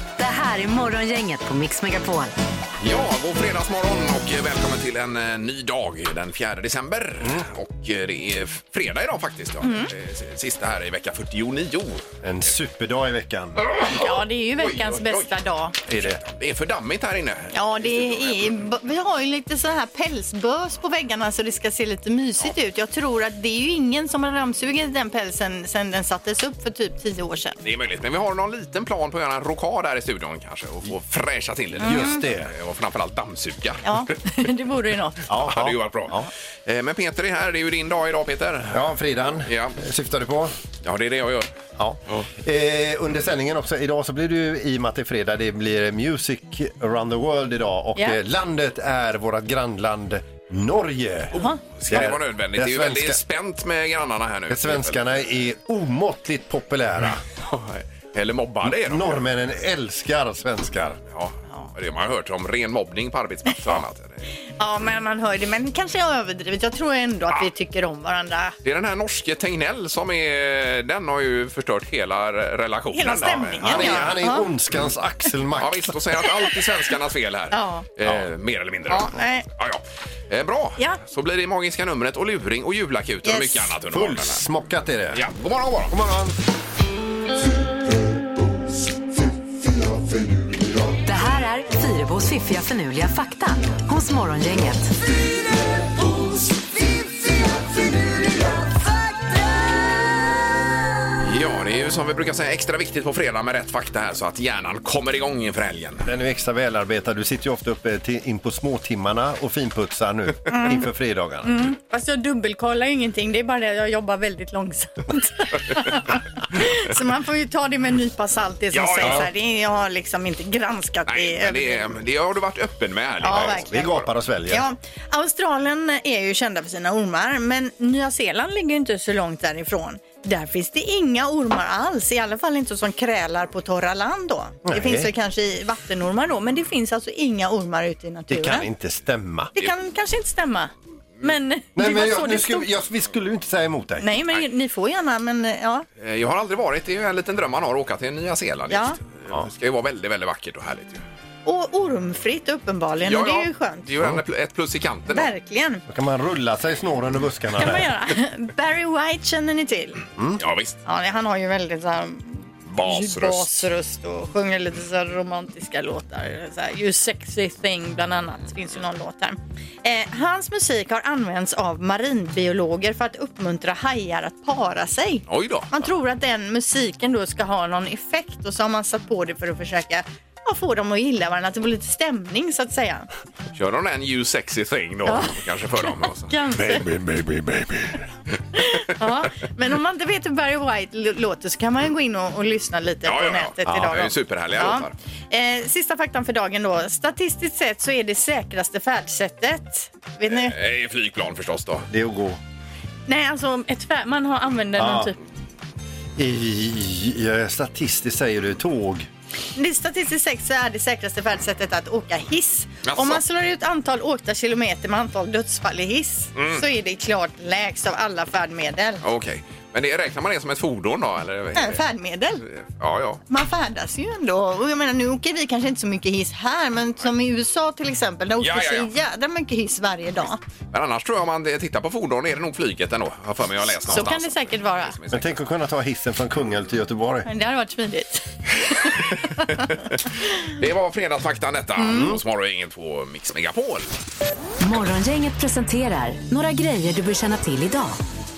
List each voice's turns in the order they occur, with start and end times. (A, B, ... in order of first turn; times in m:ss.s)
0:00.2-0:02.3 A
0:02.8-0:12.1 B
0:07.2-0:07.5 C
0:09.6-0:09.9 D
0:12.2-0:13.6 C
0:13.6-0:15.3 B
0:13.9-0:15.8 D
0:15.9-0:16.2 C
0:16.0-0:18.6 B
0:17.5-0:27.6 D
0:27.6-0:33.8 B
0:31.8-0:32.2 D
0:31.8-0:32.5 C
0:33.8-0:35.2 D
0:35.3-0:36.3 C
0:35.3-0:38.8 B
0:38.7-0:40.6 C
0:39.4-0:39.8 B
0:40.8-0:41.5 B
0:41.8-0:51.3 C
0:51.4-0:55.2 B
0:51.9-0:53.2 C
0:54.5-0:57.2 C
0:57.4-0:59.2 B
0:58.6-1:01.0 C
1:01.1-1:04.2 B
1:04.6-1:08.6 D
1:08.6-1:14.2 B
1:12.9-1:14.5 D
1:13.6-1:16.0 C
1:15.6-1:24.5 B
1:17.5-1:17.9 D
1:18.9-1:19.5 D
1:23.2-1:23.7 D
1:23.9-1:25.3 C
1:25.1-1:26.0 B
1:25.9-1:26.4 C
1:30.3-1:30.6 C
1:31.0-1:34.9 A
1:41.2-1:46.1 B
1:46.0-1:51.6 C
1:50.5-1:50.8 D
1:51.4-2:01.9 D
1:58.7-1:59.3 B
2:01.1-2:04.1 B
2:03.2-2:03.8 D
2:03.3-2:04.7 C
2:04.5-2:18.7 D
2:14.6-2:15.1 C
2:18.3-2:19.5 C
2:19.6-2:22.7 D
2:21.8-2:24.1 C
2:24.0-2:25.9 D
2:26.0-2:31.0 B
2:28.7-2:29.0 D
2:31.5-2:33.9 D
2:33.0-2:35.3 B
2:35.1-2:35.8 D
2:35.9-2:37.9 C
2:37.6-2:40.0 D
2:40.4-2:40.8 B
2:40.9-3:03.1 D
2:42.7-2:43.6 B
2:55.3-2:55.9 B
3:03.5-3:06.3 B
3:05.1-3:05.4 D
3:06.3-3:06.9 D
3:06.6-3:08.0 C
3:08.6-3:20.6 D
3:13.1-3:14.9 B
3:20.3-3:21.9 B
3:21.9-3:22.4 C
3:23.1-3:25.2 D
3:24.8-3:25.1 C
3:26.2-3:29.1 C
3:29.6-3:39.0 D
3:32.8-3:33.2 B
3:36.4-3:36.6 B
3:39.0-3:41.8 B
3:41.6-3:42.4 D
3:42.5-3:43.2 B
3:43.3-3:50.4 D
3:48.4-3:48.9 B
3:50.7-3:55.4 B
3:53.8-3:55.0 D
3:55.1-3:57.3 C
3:57.3-3:59.6 D
4:00.5-4:03.9 B
4:01.8-4:02.2 D
4:04.6-4:08.0 A